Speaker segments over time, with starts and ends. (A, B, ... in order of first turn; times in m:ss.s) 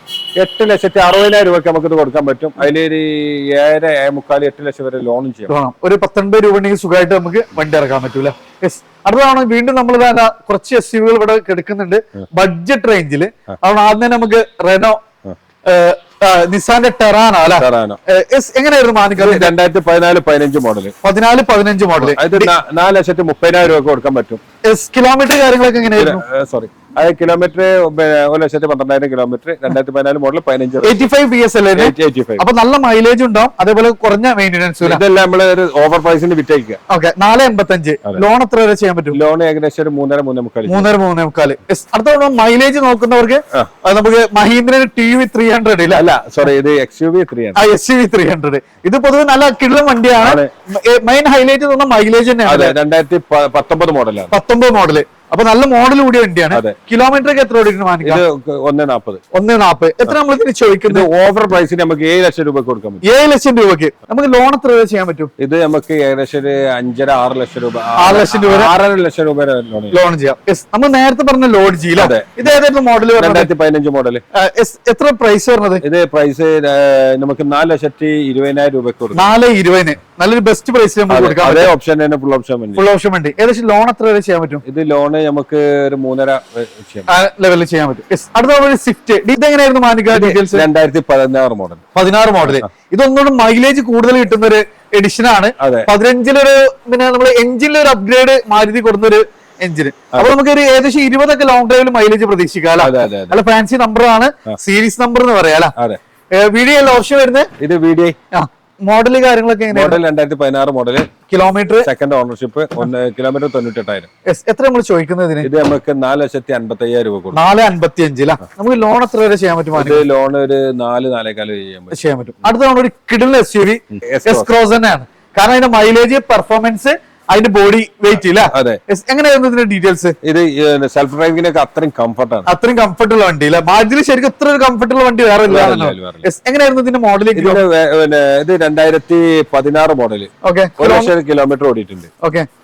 0:00.4-0:05.5 A
0:05.5-0:15.0 B
0:15.6-0:19.5 B
0:17.6-0:18.0 A
0:19.2-0:20.9 A
0:21.0-0:22.5 B
0:22.0-0:24.4 A
0:24.6-0:26.2 B
0:25.9-0:31.0 A
0:30.8-0:35.0 B
0:31.7-0:32.4 A
0:34.8-0:36.8 A
0:36.9-0:39.2 B
0:39.1-0:40.9 A
0:40.7-0:46.0 B
0:45.9-0:47.6 A
0:47.6-0:52.7 B
0:50.2-0:50.5 A
0:52.4-0:54.3 A
0:54.3-0:58.2 B
0:58.0-0:59.2 A
0:59.3-1:01.1 B
1:00.9-1:03.0 A
1:03.0-1:05.3 B
1:05.4-1:10.0 A
1:08.0-1:08.7 B
1:09.9-1:13.5 B
1:12.0-1:12.4 A
1:13.2-1:14.2 A
1:14.3-1:15.8 B
1:15.8-1:19.3 A
1:19.2-1:21.7 B
1:21.1-1:22.8 A
1:22.8-1:24.6 B
1:24.6-1:27.1 A
1:27.1-1:30.6 B
1:30.1-1:31.8 A
1:31.9-1:45.7 B
1:35.6-1:35.9 A
1:42.8-1:43.4 A
1:46.3-1:47.5 B
1:47.6-1:48.2 A
1:48.3-1:50.0 B
1:49.7-1:51.1 A
1:51.3-1:51.9 B
1:51.8-1:54.1 A
1:54.2-1:55.5 B
1:55.4-1:57.4 A
1:57.3-2:00.0 B
1:59.7-2:02.0 A
2:01.9-2:10.2 B
2:03.9-2:04.5 A
2:08.5-2:08.8 A
2:10.2-2:12.5 A
2:12.5-2:17.6 B
2:15.5-2:16.3 A
2:17.3-2:22.1 A
2:20.4-2:21.1 B
2:22.2-2:22.5 B